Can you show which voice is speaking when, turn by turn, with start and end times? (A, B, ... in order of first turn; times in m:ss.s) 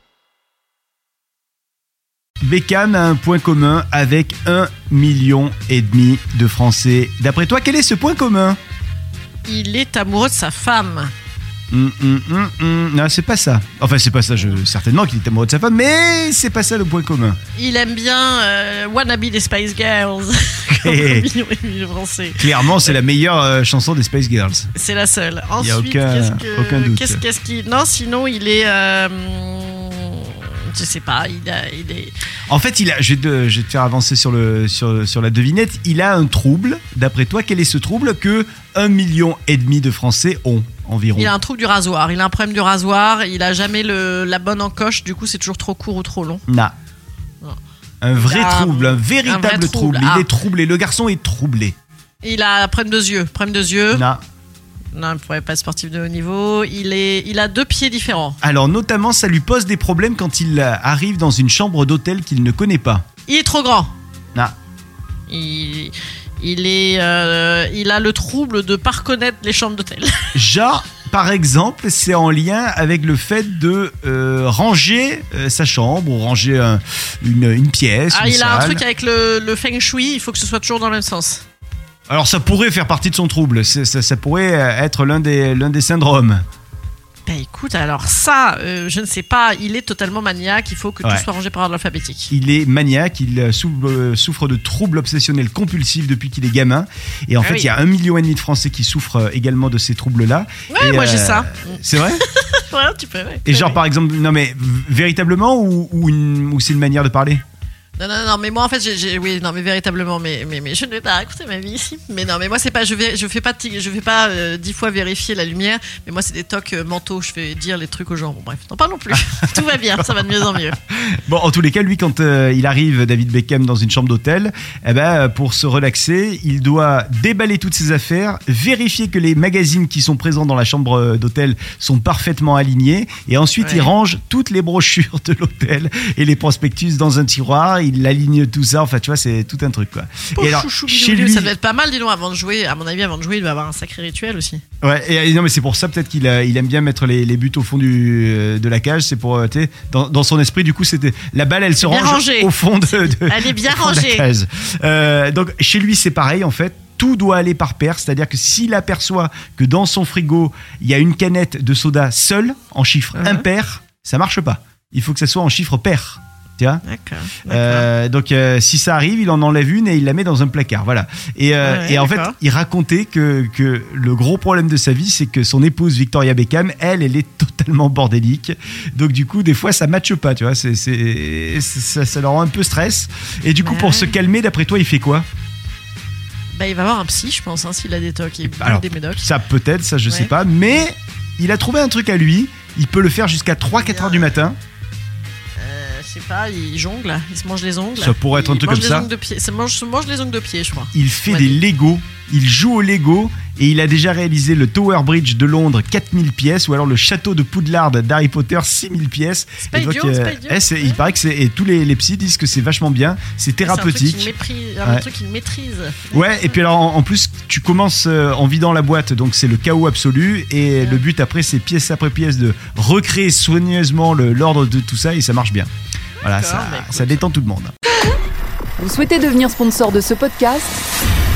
0:02.4-0:08.6 A
0:09.4-0:11.1 B
0:11.7-0:17.4 A
0:17.5-0:23.0 B
0:20.7-0:21.3 A
0:22.4-0:24.7 A
0:24.7-0:32.1 B
0:25.6-0:27.2 A
0:32.5-0:41.3 A
0:41.2-0:46.4 B
0:46.5-0:46.7 A
0:48.0-0:51.7 A
0:48.2-0:50.3 B
0:52.2-0:54.1 B
0:53.9-0:54.2 A
0:54.9-0:58.4 B
0:58.4-1:03.0 A
1:03.2-1:03.9 B
1:05.3-1:10.3 B
1:10.3-1:18.8 A
1:18.1-1:21.4 B
1:22.1-1:26.4 A
1:27.2-1:32.3 B
1:32.3-1:42.2 A
1:37.4-1:37.7 B
1:40.7-1:43.8 B
1:43.4-1:47.4 A
1:48.0-2:00.8 B
2:01.2-2:21.5 A
2:13.6-2:13.9 B
2:20.3-2:24.6 B
2:24.8-2:46.8 A
2:31.8-2:34.3 B
2:43.2-2:43.4 B
2:46.8-2:47.9 B
2:47.4-3:05.2 A
2:51.6-2:52.3 B
3:03.6-3:04.2 B
3:06.5-3:09.3 B
3:08.6-3:14.6 A
3:10.1-3:10.3 B
3:13.7-3:14.4 B
3:15.6-3:21.6 B
3:18.0-3:19.1 A
3:20.9-3:34.3 A
3:29.6-3:31.0 B
3:33.6-3:36.3 B
3:36.1-3:45.7 A
3:46.2-3:47.7 A
3:46.2-3:47.2 B
3:48.8-3:50.8 C